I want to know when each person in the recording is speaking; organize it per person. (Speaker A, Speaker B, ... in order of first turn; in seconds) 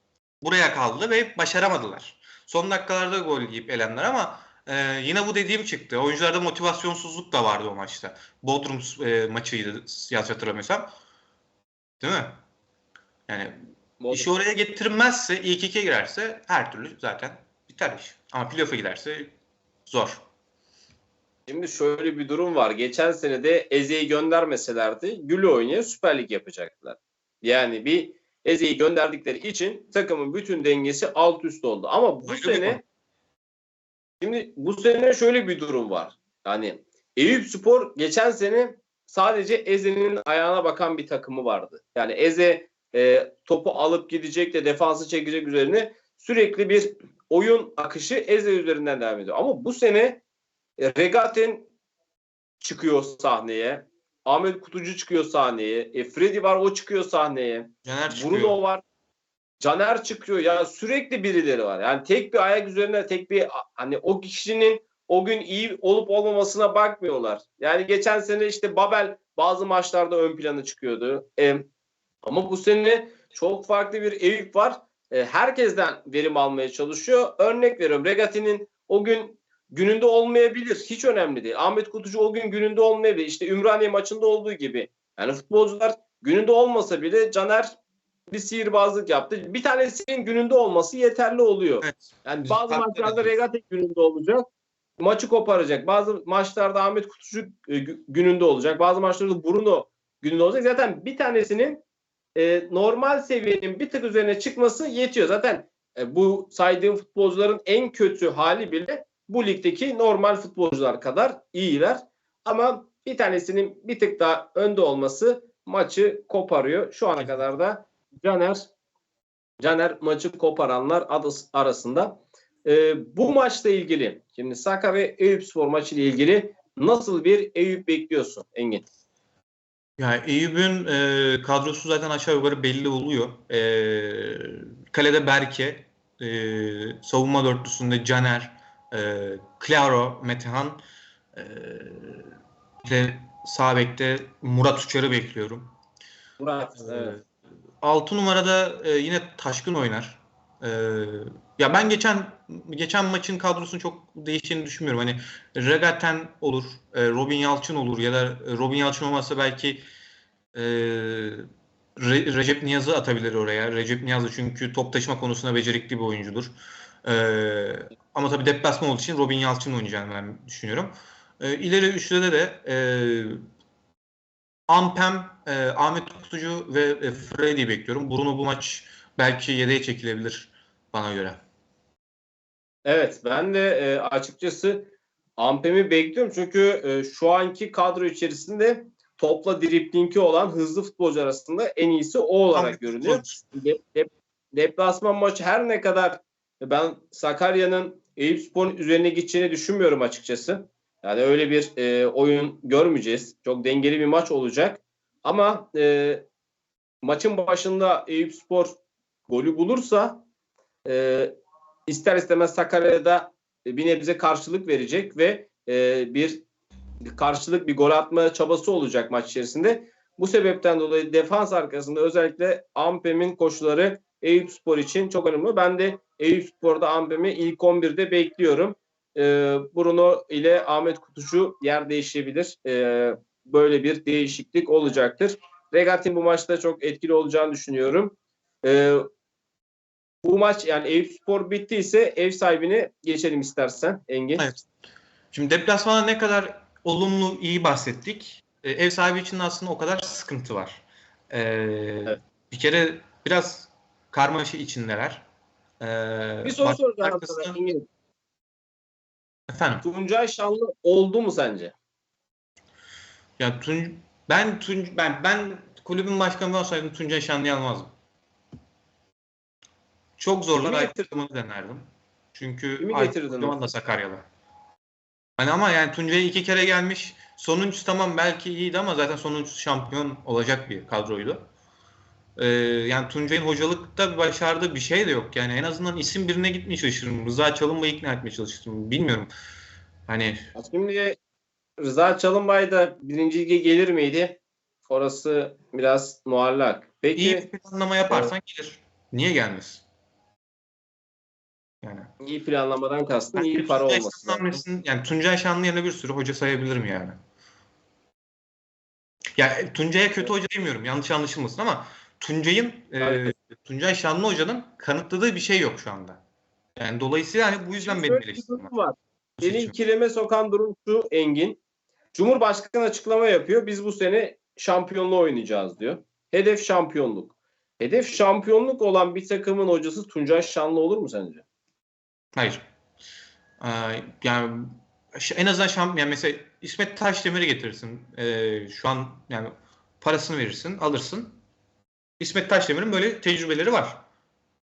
Speaker A: 0.4-10.9, 12.0-12.4, 13.3-13.6, 14.1-19.3, 19.9-20.2, 32.3-32.8, 57.9-58.6, 91.8-93.3, 117.2-117.4, 130.0-140.8, 141.3-142.3, 142.8-145.7, 146.8-147.2, 147.8-159.8, 160.6-161.4, 162.0-166.5, 167.0-173.4, 174.7-181.4, 192.5-193.4, 244.4-244.6, 245.3-255.3, 255.8-257.6, 259.5-259.9, 263.4-267.9, 270.2-274.2, 275.4-281.5, 282.4-289.3, 290.1-290.5, 297.1-299.8, 301.8-302.1, 303.3-307.2, 309.4-316.2, 316.8-318.7, 319.4-319.8, 332.3-332.6, 333.6-341.4, 342.2-344.0
Speaker B: 14.0-14.4, 21.5-32.8, 34.2-50.2, 50.8-51.7, 52.6-58.8, 59.6-71.7, 72.2-87.7, 88.3-94.5, 95.0-101.8, 102.4-118.7, 119.6-128.8, 146.4-147.2, 182.8-206.2, 207.0-208.8, 209.3-210.2, 210.8-211.3, 211.9-216.4, 217.0-239.1, 240.2-244.5, 256.4-257.9, 259.8-261.7, 270.6-271.1, 272.8-273.6, 290.6-291.2, 291.8-297.5, 302.2-304.6, 313.0-313.3, 317.8-321.6, 322.1-331.4